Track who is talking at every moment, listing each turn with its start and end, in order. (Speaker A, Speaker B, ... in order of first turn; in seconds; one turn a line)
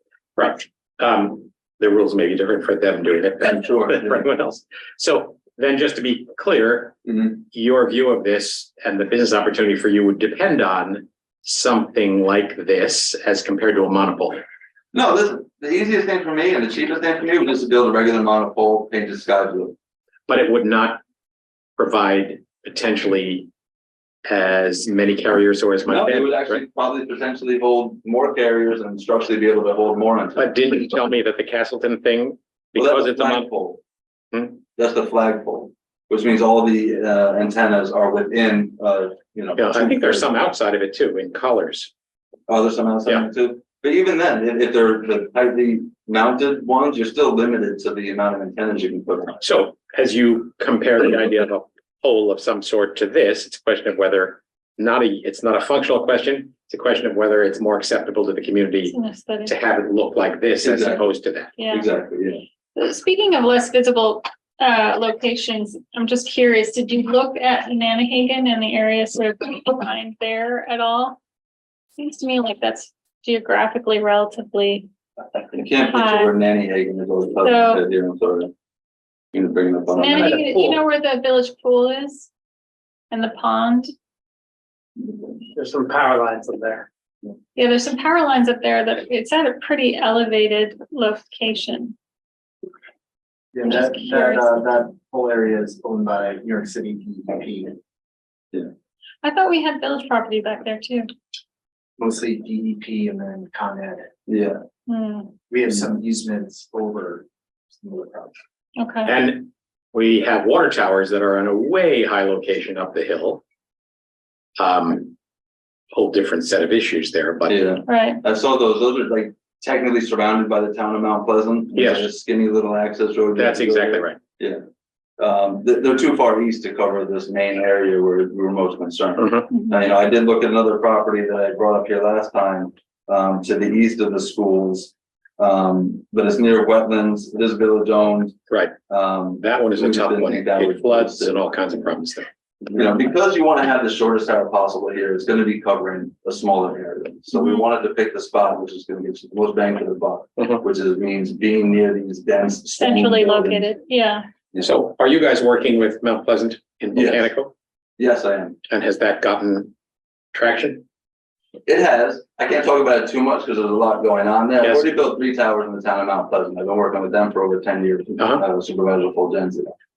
Speaker A: 0.4-14.4
Speaker B: 3.4-4.3
Speaker B: 7.1-7.3
Speaker B: 14.9-19.7
Speaker A: 20.3-21.0
Speaker A: 21.8-23.5
Speaker A: 24.3-26.6
Speaker B: 25.9-30.7
Speaker A: 30.4-33.5
Speaker B: 32.7-33.8
Speaker A: 34.3-34.6
Speaker B: 34.8-40.3
Speaker A: 39.5-41.9
Speaker B: 42.5-49.4
Speaker A: 49.4-61.5
Speaker C: 58.9-59.5
Speaker B: 60.6-61.0
Speaker C: 61.6-61.9
Speaker B: 61.7-62.4
Speaker C: 62.8-71.2
Speaker C: 71.9-74.9
Speaker B: 75.5-78.5
Speaker C: 75.9-76.3
Speaker C: 77.4-77.8
Speaker B: 79.3-80.4
Speaker C: 79.9-82.3
Speaker A: 80.1-80.8
Speaker C: 83.1-83.9
Speaker A: 85.5-86.9
Speaker C: 87.5-91.9
Speaker D: 93.5-97.8
Speaker C: 93.6-94.7
Speaker C: 99.2-101.1
Speaker D: 102.0-104.1
Speaker B: 104.3-104.6
Speaker C: 104.9-105.3
Speaker D: 105.5-108.3
Speaker C: 108.8-109.1
Speaker A: 109.0-113.4
Speaker A: 114.6-115.1
Speaker A: 115.9-117.6
Speaker B: 117.5-124.6
Speaker C: 117.9-118.2
Speaker A: 121.7-122.1
Speaker A: 123.3-124.2
Speaker B: 125.2-138.3
Speaker A: 129.2-129.5
Speaker C: 129.5-129.8
Speaker A: 138.5-138.7
Speaker B: 138.9-141.4
Speaker A: 139.4-142.3
Speaker B: 142.7-153.7
Speaker C: 147.3-147.7
Speaker C: 152.8-154.2
Speaker A: 154.6-157.5
Speaker B: 156.9-157.3
Speaker B: 158.0-158.6
Speaker A: 158.7-159.7
Speaker A: 160.3-160.8
Speaker B: 161.7-169.7
Speaker A: 164.6-164.9